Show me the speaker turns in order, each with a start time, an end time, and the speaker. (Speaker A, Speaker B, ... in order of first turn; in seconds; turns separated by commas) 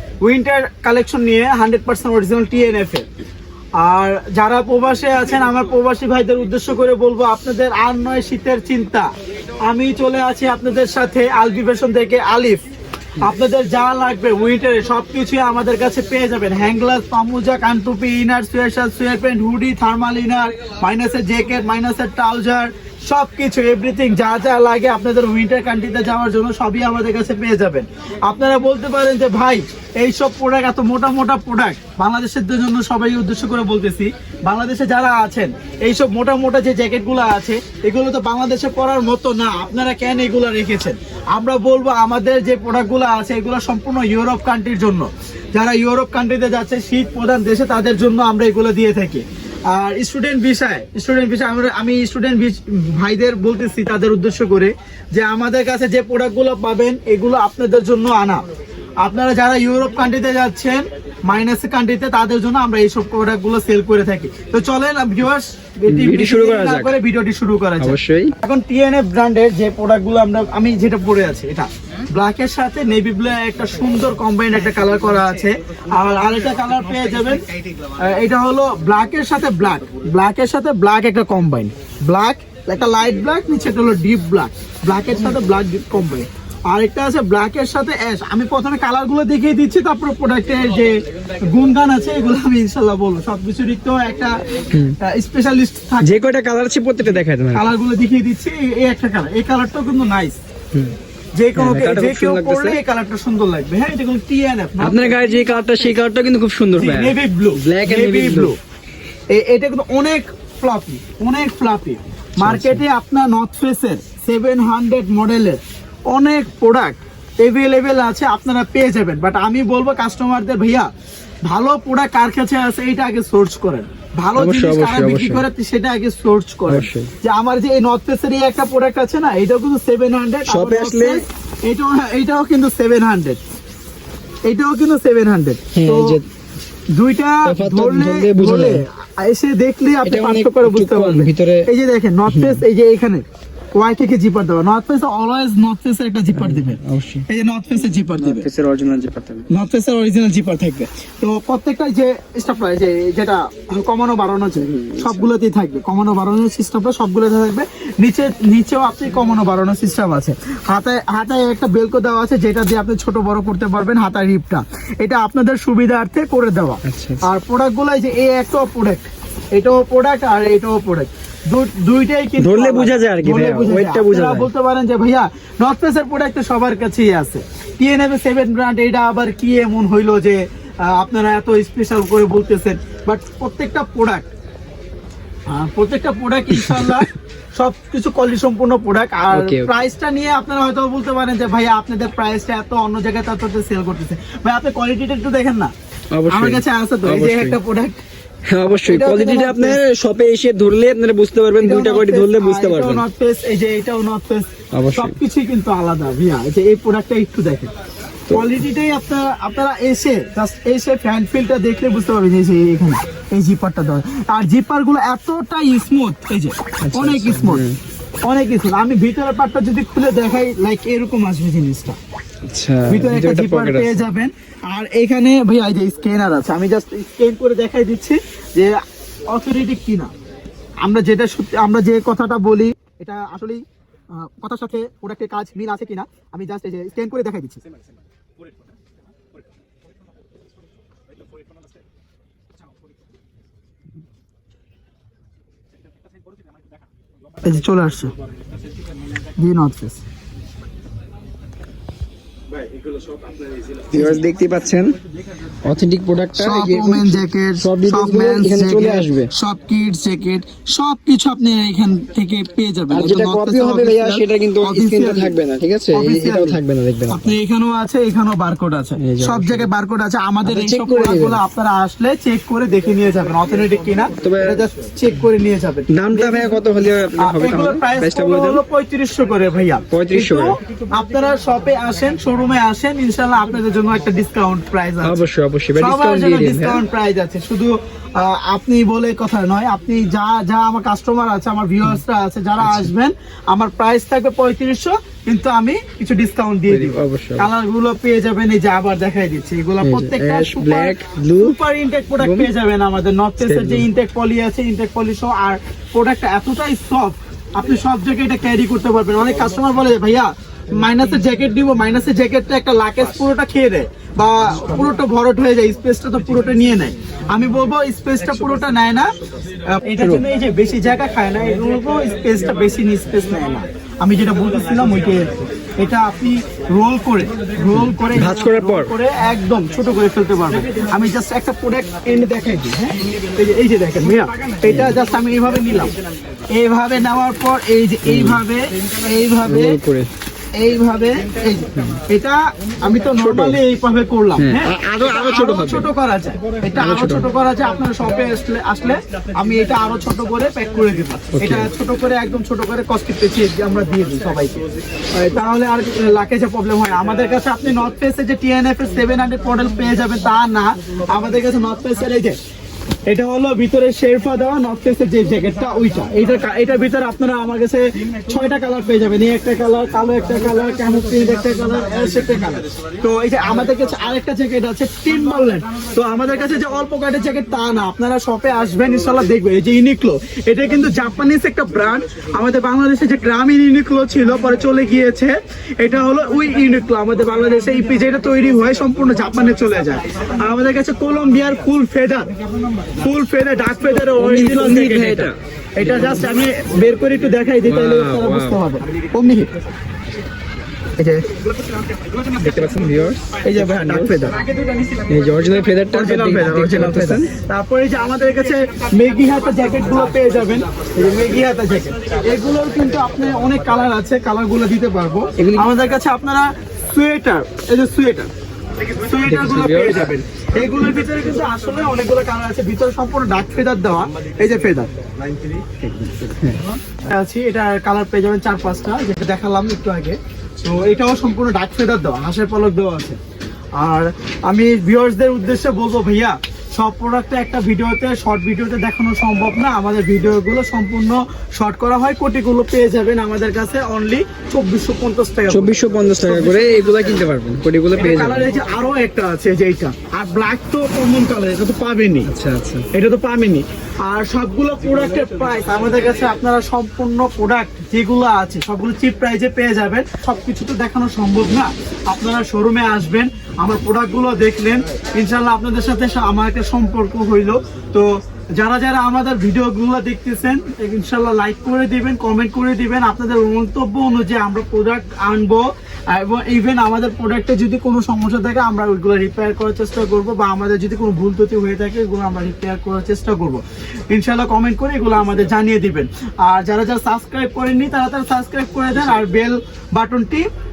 Speaker A: 0.2-3.1, Speaker A: 3.8-9.1, Speaker A: 9.6-12.6, Speaker A: 13.2-58.4, Speaker A: 59.0-77.4, Speaker B: 65.9-67.0, Speaker B: 67.8-68.3, Speaker A: 78.0-94.4, Speaker A: 95.0-96.1, Speaker B: 96.0-97.7, Speaker A: 97.5-100.4, Speaker A: 101.4-105.7, Speaker B: 101.5-102.8, Speaker B: 104.8-108.5, Speaker A: 106.8-108.6, Speaker A: 109.3-120.9, Speaker B: 112.4-112.8, Speaker A: 121.4-133.4, Speaker B: 124.4-125.5, Speaker B: 126.7-127.1, Speaker B: 130.5-131.2, Speaker A: 134.5-136.2, Speaker B: 135.7-136.3, Speaker A: 136.9-143.2, Speaker B: 137.4-138.8, Speaker B: 140.1-141.7, Speaker B: 142.3-142.6, Speaker A: 143.8-148.5, Speaker B: 146.3-147.2, Speaker B: 148.2-149.5, Speaker A: 149.5-184.3, Speaker B: 154.6-155.3, Speaker B: 166.8-167.2, Speaker B: 172.4-174.5, Speaker A: 185.5-195.7, Speaker B: 186.6-187.1, Speaker B: 189.3-189.7, Speaker B: 196.1-197.6, Speaker A: 196.3-198.0, Speaker B: 198.5-203.1, Speaker A: 198.7-199.8, Speaker A: 201.6-207.7, Speaker B: 204.7-205.2, Speaker A: 208.3-217.7, Speaker B: 216.8-217.8, Speaker A: 218.2-222.0, Speaker B: 222.5-224.1, Speaker A: 222.9-228.7, Speaker A: 229.3-230.1, Speaker A: 230.8-237.6, Speaker A: 247.4-248.1, Speaker A: 249.4-250.0, Speaker B: 253.9-255.0, Speaker B: 255.7-259.3, Speaker A: 256.4-265.4, Speaker B: 262.9-267.4, Speaker A: 265.9-276.6, Speaker B: 269.0-269.7, Speaker B: 270.4-271.4, Speaker B: 274.2-274.6, Speaker B: 275.9-278.6, Speaker A: 277.2-285.2, Speaker B: 279.9-280.6, Speaker B: 285.0-286.8, Speaker A: 285.8-319.1, Speaker B: 292.6-292.9, Speaker B: 296.7-297.5, Speaker B: 299.8-301.6, Speaker B: 302.2-302.5, Speaker B: 303.4-303.9, Speaker A: 319.6-335.9, Speaker B: 327.8-328.9, Speaker B: 334.7-335.0, Speaker A: 336.5-339.8, Speaker B: 338.1-338.4, Speaker B: 339.4-340.1, Speaker A: 340.6-354.6, Speaker B: 341.7-342.0, Speaker B: 343.2-343.6, Speaker B: 344.4-345.9, Speaker B: 346.8-347.3, Speaker B: 351.3-351.7, Speaker A: 355.1-362.4, Speaker A: 363.1-392.3, Speaker A: 392.8-399.5, Speaker B: 394.1-396.1, Speaker B: 397.6-398.6, Speaker A: 401.0-401.4, Speaker B: 402.3-404.3, Speaker A: 403.4-404.5, Speaker B: 405.1-407.3, Speaker A: 405.9-418.3, Speaker B: 415.4-415.7, Speaker A: 418.9-424.9, Speaker B: 419.2-420.1, Speaker B: 425.8-426.6, Speaker A: 426.9-433.2, Speaker A: 433.8-446.7, Speaker B: 445.5-448.5, Speaker A: 447.9-452.3, Speaker B: 452.3-452.9, Speaker A: 452.9-490.4